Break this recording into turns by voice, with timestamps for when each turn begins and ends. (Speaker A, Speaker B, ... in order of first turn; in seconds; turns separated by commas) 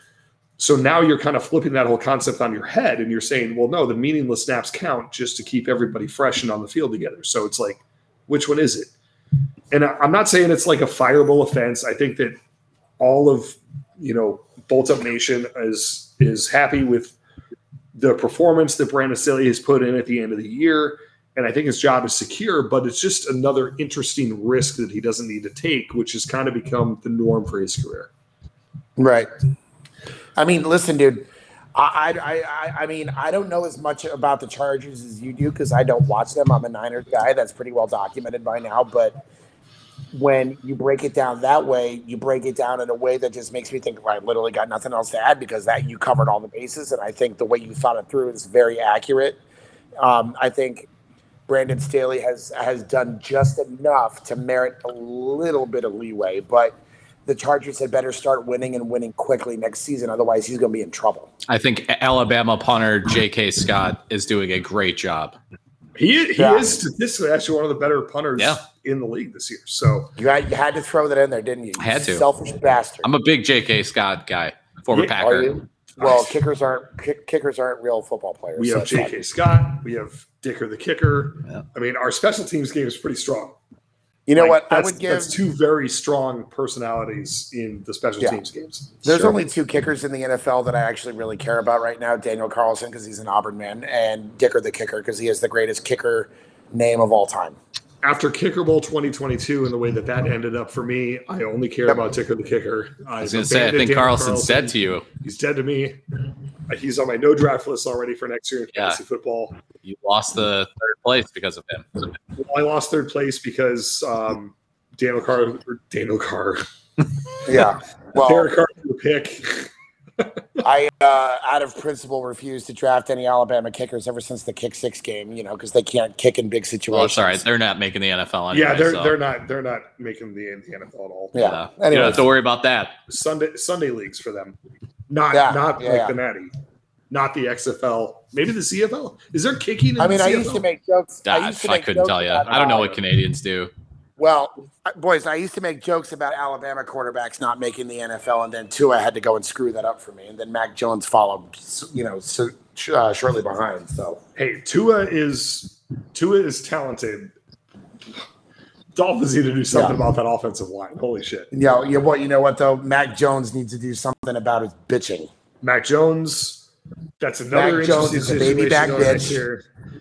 Speaker A: 0.6-8.9, Speaker A: 9.7-12.3, Speaker A: 13.0-17.1, Speaker A: 17.9-28.1, Speaker B: 29.0-29.3, Speaker B: 30.4-39.2, Speaker B: 40.1-49.4, Speaker B: 50.0-50.9, Speaker B: 51.5-61.3, Speaker C: 61.5-65.3, Speaker A: 66.0-70.1, Speaker B: 66.4-66.8, Speaker B: 70.2-73.1, Speaker C: 71.8-72.2, Speaker C: 73.0-75.6, Speaker A: 74.9-75.3, Speaker B: 75.2-79.1, Speaker A: 76.0-76.3, Speaker A: 78.6-83.6, Speaker B: 84.3-85.4, Speaker A: 84.3-89.0, Speaker B: 89.0-97.6, Speaker C: 89.1-89.3, Speaker A: 98.0-106.0, Speaker C: 103.2-105.1, Speaker A: 106.7-109.6, Speaker C: 108.7-109.0, Speaker C: 109.8-112.0, Speaker A: 112.3-116.6, Speaker B: 117.5-118.5, Speaker A: 117.5-120.6, Speaker B: 120.6-127.4, Speaker C: 126.9-129.2, Speaker A: 128.5-131.3, Speaker B: 131.3-132.3, Speaker C: 131.3-133.0, Speaker A: 133.1-134.6, Speaker A: 135.1-136.5, Speaker B: 135.3-136.2, Speaker A: 137.1-140.7, Speaker B: 140.0-142.9, Speaker C: 141.2-143.7, Speaker A: 142.5-143.0, Speaker B: 144.2-154.2, Speaker A: 154.3-157.3, Speaker A: 158.9-161.5, Speaker B: 159.7-160.0, Speaker B: 161.5-165.3, Speaker A: 165.6-166.7, Speaker A: 167.2-169.6, Speaker B: 167.5-169.4